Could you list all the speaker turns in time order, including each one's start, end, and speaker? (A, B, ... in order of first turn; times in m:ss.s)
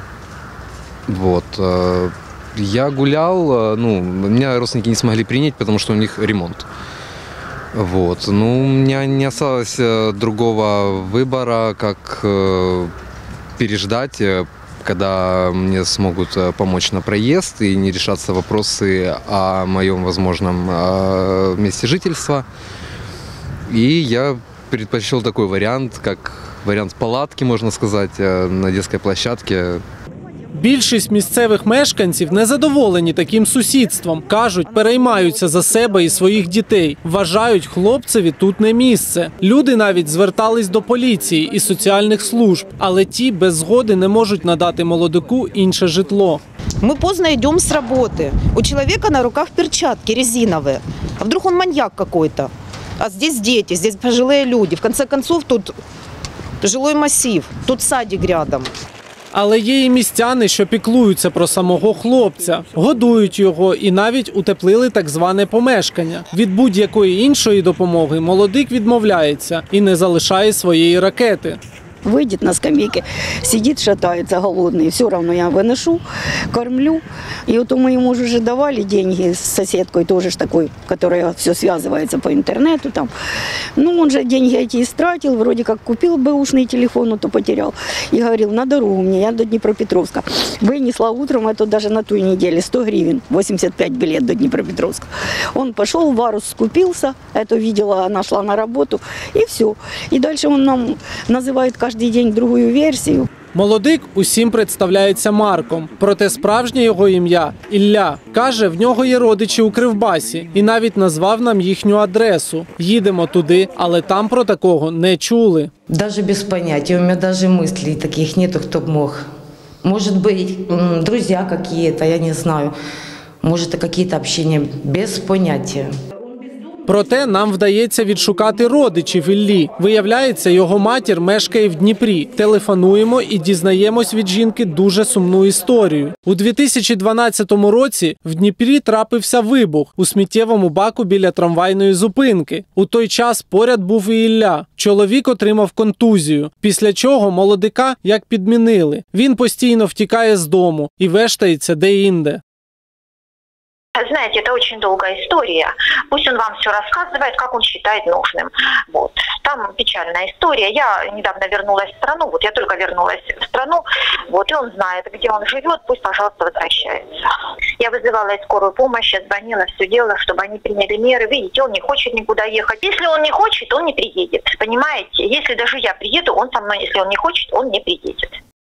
0:01.1-0:06.6 A
0:07.7-0:12.9 A
0:13.6-0:22.4 A
0:23.7-0:29.8 A
0:30.5-0:46.4 B
0:46.8-0:55.8 C
0:56.6-0:58.7 C
0:59.3-1:11.6 B
1:12.0-1:23.1 D
1:23.8-1:43.3 D
1:43.5-1:55.7 B
1:55.9-1:59.2 E
1:59.8-2:02.7 E
2:03.4-2:05.9 E
2:06.9-2:32.4 B
2:34.0-2:47.1 F
2:47.8-2:58.3 F